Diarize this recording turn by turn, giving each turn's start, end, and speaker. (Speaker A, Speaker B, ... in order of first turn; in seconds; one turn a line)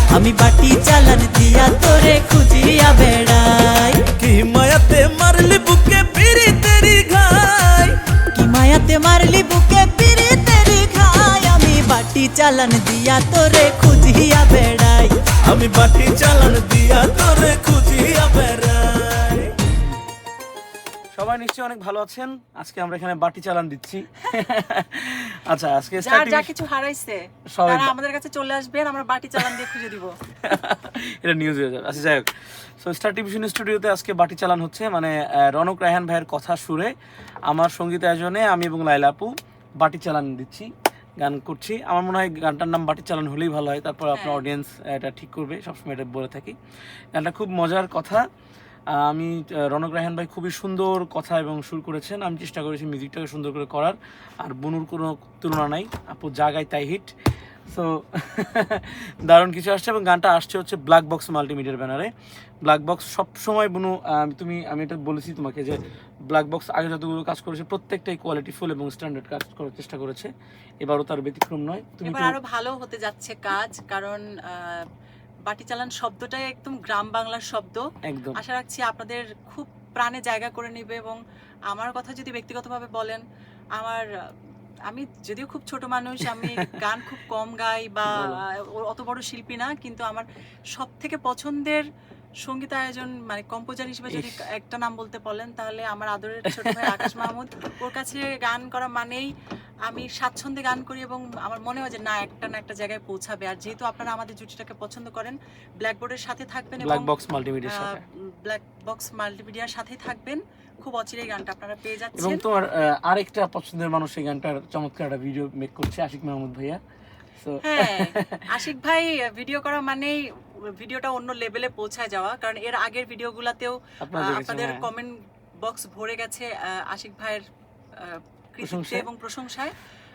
Speaker A: 0.1-4.1
Speaker B: 4.2-8.0
Speaker A: 8.3-15.2
Speaker B: 15.4-19.6
Speaker C: 21.1-26.5
Speaker D: 26.0-30.1
Speaker C: 27.5-27.9
Speaker C: 30.4-36.9
Speaker C: 37.5-46.5
Speaker D: 44.1-44.5
Speaker C: 47.1-48.3
Speaker C: 48.9-57.1
Speaker C: 57.7-62.1
Speaker C: 62.6-70.3
Speaker C: 70.8-72.4
Speaker D: 72.0-74.8
Speaker D: 75.5-81.2
Speaker C: 78.0-78.4
Speaker D: 81.7-83.2
Speaker D: 83.8-84.1
Speaker D: 84.9-91.8
Speaker C: 86.3-86.8
Speaker C: 88.1-88.4
Speaker D: 92.4-99.3
Speaker C: 94.1-94.5
Speaker C: 96.5-97.3
Speaker D: 99.8-107.1
Speaker C: 106.8-108.0
Speaker D: 107.7-112.5
Speaker C: 112.2-116.8
Speaker C: 117.4-118.7
Speaker D: 117.6-120.2
Speaker D: 120.7-127.4
Speaker C: 124.0-124.9
Speaker D: 128.0-129.8
Speaker C: 128.6-129.1